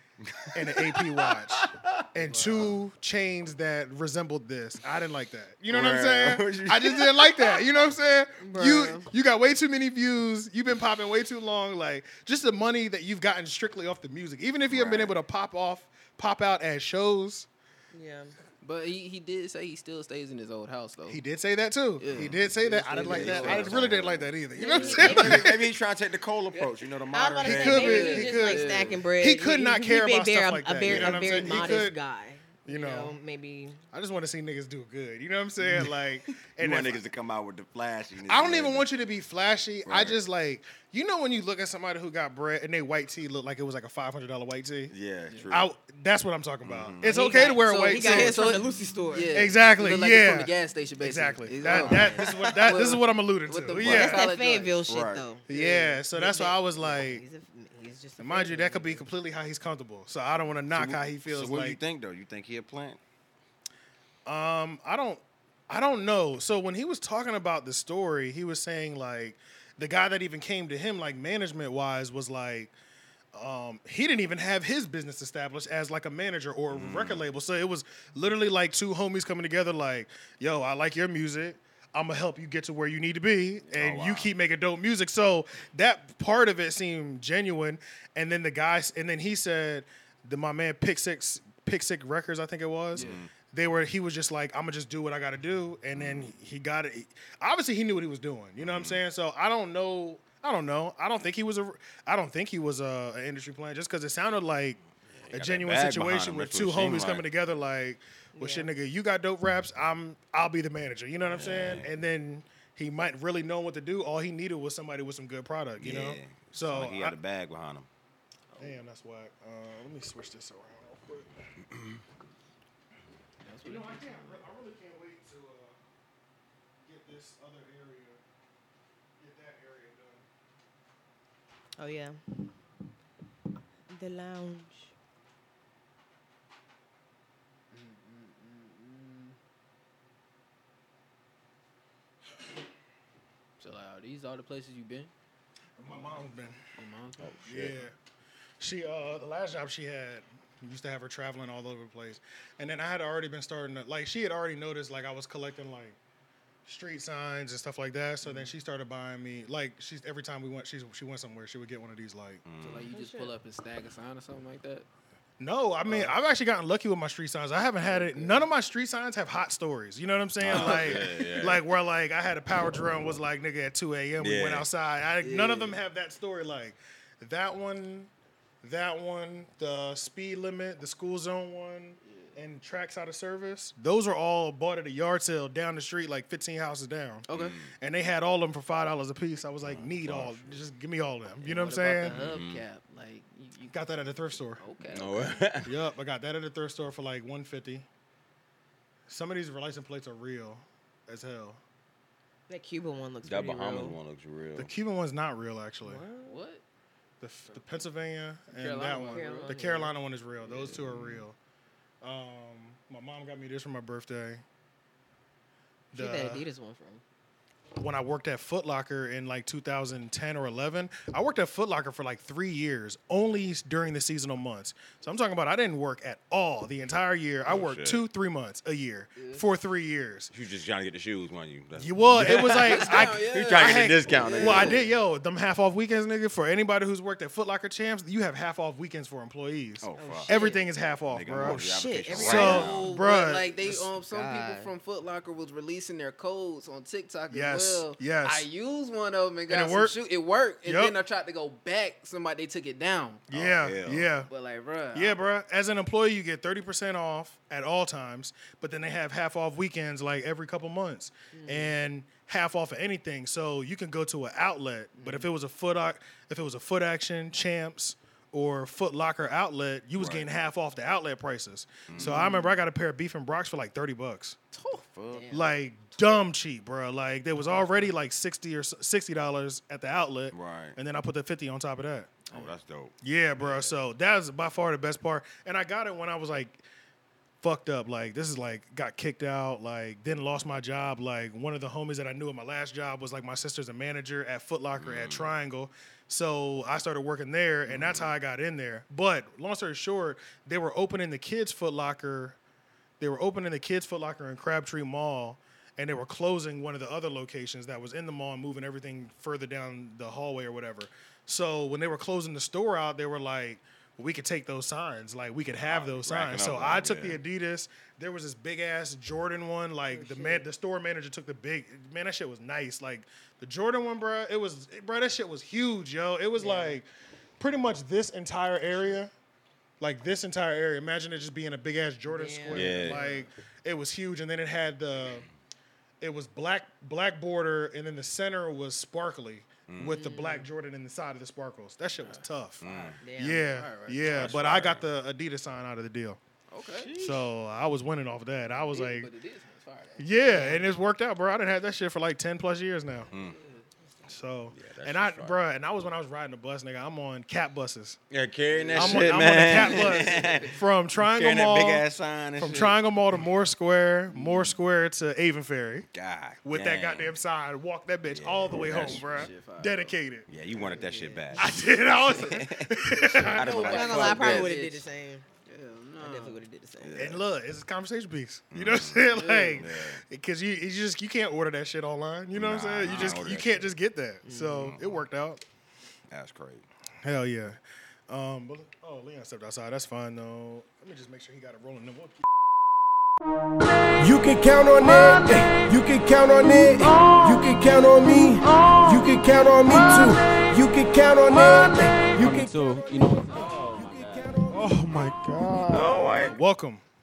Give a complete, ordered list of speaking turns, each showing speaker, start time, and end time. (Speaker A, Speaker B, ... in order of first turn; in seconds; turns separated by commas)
Speaker A: 0.2-2.7, Speaker B: 0.5-17.5, Speaker A: 5.7-7.6, Speaker C: 8.4-9.1, Speaker A: 14.7-15.2, Speaker C: 17.9-18.4, Speaker D: 18.6-21.2, Speaker B: 21.1-25.6, Speaker D: 22.0-23.8, Speaker A: 23.0-24.3, Speaker C: 24.6-25.6, Speaker D: 24.7-25.1, Speaker A: 24.9-28.2, Speaker C: 27.1-33.8, Speaker B: 27.4-31.9, Speaker D: 27.7-29.0, Speaker A: 30.8-31.8, Speaker B: 32.7-33.1, Speaker B: 33.9-37.0, Speaker A: 35.6-35.9, Speaker A: 36.6-38.9, Speaker B: 38.3-44.9, Speaker A: 39.8-40.2, Speaker A: 44.9-45.7, Speaker B: 45.5-48.4, Speaker A: 46.6-47.1, Speaker C: 47.0-49.4, Speaker D: 47.9-54.8, Speaker B: 49.3-54.0, Speaker C: 51.6-52.3, Speaker A: 51.8-52.0, Speaker A: 53.7-54.2, Speaker C: 53.9-59.1, Speaker A: 54.9-55.2, Speaker B: 55.5-57.2, Speaker D: 55.5-56.0, Speaker B: 58.2-61.8, Speaker A: 60.7-63.0, Speaker B: 64.3-72.7, Speaker B: 73.3-104.8, Speaker A: 76.7-77.2, Speaker A: 83.7-84.3, Speaker D: 92.9-93.2, Speaker A: 93.0-93.3, Speaker A: 95.9-96.3, Speaker A: 98.6-99.0, Speaker A: 105.1-107.3, Speaker B: 105.3-117.2, Speaker C: 108.4-108.7, Speaker A: 111.2-111.9, Speaker A: 115.8-117.9, Speaker B: 118.6-121.3, Speaker A: 121.7-122.0, Speaker D: 123.4-124.4, Speaker B: 123.6-125.8, Speaker B: 126.8-128.2, Speaker B: 129.2-130.2, Speaker C: 131.8-132.2, Speaker C: 133.9-134.9, Speaker D: 137.7-139.4, Speaker D: 143.6-145.1, Speaker B: 145.8-146.6, Speaker D: 146.7-147.3, Speaker A: 147.2-147.8, Speaker B: 147.5-147.9, Speaker B: 148.6-156.0, Speaker B: 156.7-162.4, Speaker D: 158.2-158.5, Speaker A: 162.4-162.9, Speaker D: 162.6-164.9, Speaker C: 162.9-163.3, Speaker B: 165.4-178.1, Speaker D: 165.9-166.2, Speaker D: 167.9-168.4, Speaker A: 170.4-171.6, Speaker D: 170.5-171.0, Speaker A: 174.2-174.7, Speaker D: 175.2-175.8, Speaker B: 178.6-187.3, Speaker D: 182.0-182.4, Speaker D: 187.3-187.6, Speaker A: 187.3-187.7, Speaker B: 187.8-192.2, Speaker A: 189.6-190.6, Speaker D: 191.4-193.8, Speaker A: 192.1-192.6, Speaker B: 193.7-194.6, Speaker D: 194.6-195.4, Speaker A: 194.9-195.7, Speaker B: 195.7-197.9, Speaker B: 199.1-201.6, Speaker C: 202.5-204.0, Speaker A: 203.2-204.7, Speaker B: 204.6-206.1, Speaker C: 205.8-206.4, Speaker D: 206.2-206.6, Speaker B: 207.2-211.4, Speaker D: 208.6-209.9, Speaker C: 209.1-209.9, Speaker A: 210.4-211.2, Speaker B: 212.0-214.4, Speaker B: 215.9-216.4, Speaker C: 215.9-217.0, Speaker B: 217.8-230.3, Speaker A: 227.4-228.0, Speaker D: 229.2-229.4, Speaker A: 230.3-234.8, Speaker B: 231.8-243.9, Speaker D: 232.2-234.9, Speaker A: 239.8-240.4, Speaker C: 240.0-240.7, Speaker A: 241.1-242.9, Speaker C: 241.4-242.8, Speaker D: 242.2-253.2, Speaker C: 244.1-244.7, Speaker B: 247.3-248.5, Speaker B: 249.5-250.0, Speaker B: 250.7-251.0, Speaker A: 253.3-254.1, Speaker B: 253.3-254.3, Speaker D: 254.3-255.2, Speaker B: 254.9-274.4, Speaker C: 261.3-261.8, Speaker A: 270.0-270.3, Speaker A: 271.9-272.4, Speaker A: 274.9-275.4, Speaker D: 275.1-275.5, Speaker B: 275.3-282.2, Speaker A: 280.3-280.8, Speaker A: 282.3-282.9, Speaker B: 283.0-286.6, Speaker B: 287.4-302.4, Speaker A: 294.8-295.3, Speaker A: 297.7-298.1, Speaker B: 303.0-326.9, Speaker A: 315.6-317.2, Speaker C: 319.9-320.4, Speaker C: 326.4-326.8, Speaker B: 327.4-329.1, Speaker B: 329.8-335.3, Speaker C: 332.1-333.1, Speaker A: 332.5-333.0, Speaker D: 333.0-333.2, Speaker B: 336.0-342.7, Speaker A: 339.7-340.0, Speaker C: 339.9-340.5, Speaker A: 342.6-343.0, Speaker D: 342.7-344.4, Speaker C: 343.0-343.7, Speaker B: 343.2-346.2, Speaker A: 344.1-344.9, Speaker D: 346.5-346.9, Speaker A: 346.8-347.3, Speaker B: 346.9-349.1, Speaker D: 348.5-350.6, Speaker B: 350.0-353.1, Speaker C: 350.3-350.6, Speaker A: 353.1-353.4, Speaker D: 353.2-353.6, Speaker B: 354.1-358.0, Speaker A: 354.5-355.4, Speaker A: 358.1-362.8, Speaker D: 358.5-360.6, Speaker B: 358.8-361.9, Speaker B: 362.4-365.9, Speaker A: 364.2-364.5, Speaker A: 365.9-367.1, Speaker B: 366.4-370.3, Speaker A: 368.1-369.3, Speaker D: 368.7-369.9, Speaker A: 370.3-374.5, Speaker D: 370.6-372.4, Speaker B: 371.4-373.9, Speaker D: 373.3-374.9, Speaker C: 373.6-375.3, Speaker D: 375.5-376.4, Speaker C: 376.0-377.2, Speaker A: 376.8-377.2, Speaker B: 377.0-385.4, Speaker A: 378.5-380.0, Speaker D: 379.1-379.6, Speaker A: 382.3-383.6, Speaker C: 384.2-384.8, Speaker A: 384.6-385.0, Speaker A: 386.1-386.7, Speaker B: 387.0-392.2, Speaker E: 394.0-404.8, Speaker D: 402.6-404.4, Speaker B: 404.5-406.8, Speaker A: 405.7-406.4